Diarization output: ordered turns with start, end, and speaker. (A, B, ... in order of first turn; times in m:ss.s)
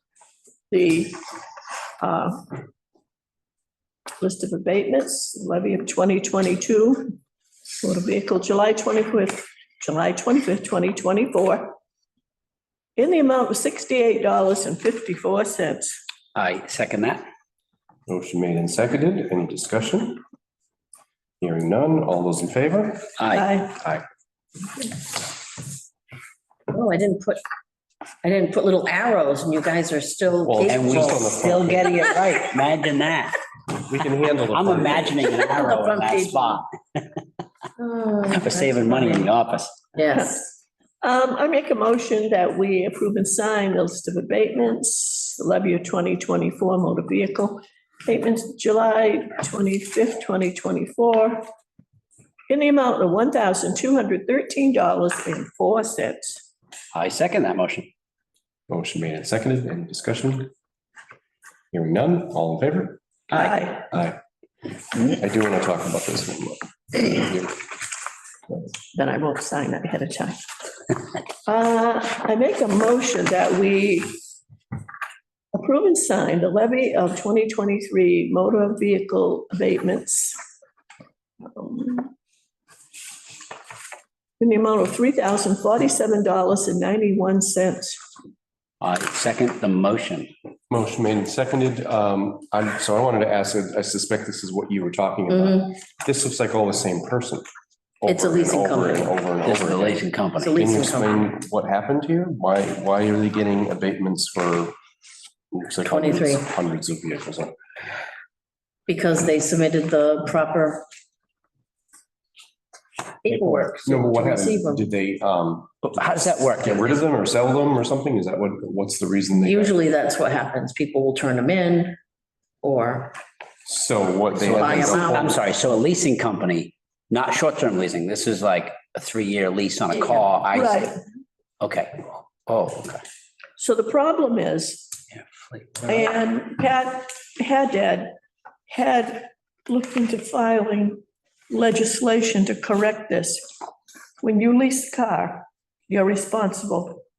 0:00.7-0:01.2 A
0:02.0-0:02.4 A
0:04.2-0:07.2 A
0:07.8-0:11.8 A
0:13.0-0:15.9 A
0:16.3-0:17.2 B
0:18.1-0:20.2 C
0:21.4-0:23.1 C
0:23.2-0:23.5 B
0:23.3-0:23.8 A
0:23.8-0:24.0 C
0:26.7-0:27.4 D
0:28.2-0:32.0 D
0:30.4-0:32.0 C
0:30.6-0:33.4 B
0:33.8-0:35.3 C
0:34.5-0:37.2 B
0:35.3-0:36.6 D
0:37.8-0:39.3 D
0:38.3-0:39.8 B
0:39.9-0:40.4 D
0:41.0-0:51.4 A
0:52.5-0:56.4 A
0:56.9-0:57.9 B
0:58.7-1:00.5 C
1:01.7-1:03.0 C
1:03.3-1:03.8 A
1:03.9-1:04.2 C
1:05.0-1:07.5 C
1:08.9-1:10.4 A
1:11.4-1:14.2 A
1:15.5-1:20.4 A
1:21.4-1:22.1 A
1:24.4-1:28.0 A
1:28.8-1:30.3 B
1:30.7-1:37.4 C
1:35.3-1:35.7 D
1:38.0-1:44.7 C
1:38.0-1:39.2 D
1:39.4-1:40.6 B
1:40.4-1:41.3 D
1:45.5-1:47.5 C
1:45.9-1:46.5 D
1:48.9-1:50.8 D
1:53.2-1:54.9 D
1:53.3-1:55.9 C
1:55.8-1:57.0 B
1:56.6-1:59.8 C
1:59.3-2:02.0 D
2:02.6-2:03.2 D
2:03.6-2:05.4 C
2:04.4-2:05.4 D
2:04.4-2:10.8 B
2:10.5-2:10.9 A
2:11.6-2:13.0 B
2:13.6-2:14.9 A
2:15.1-2:16.0 B
2:15.8-2:18.1 A
2:18.7-2:23.4 A
2:24.2-2:27.0 A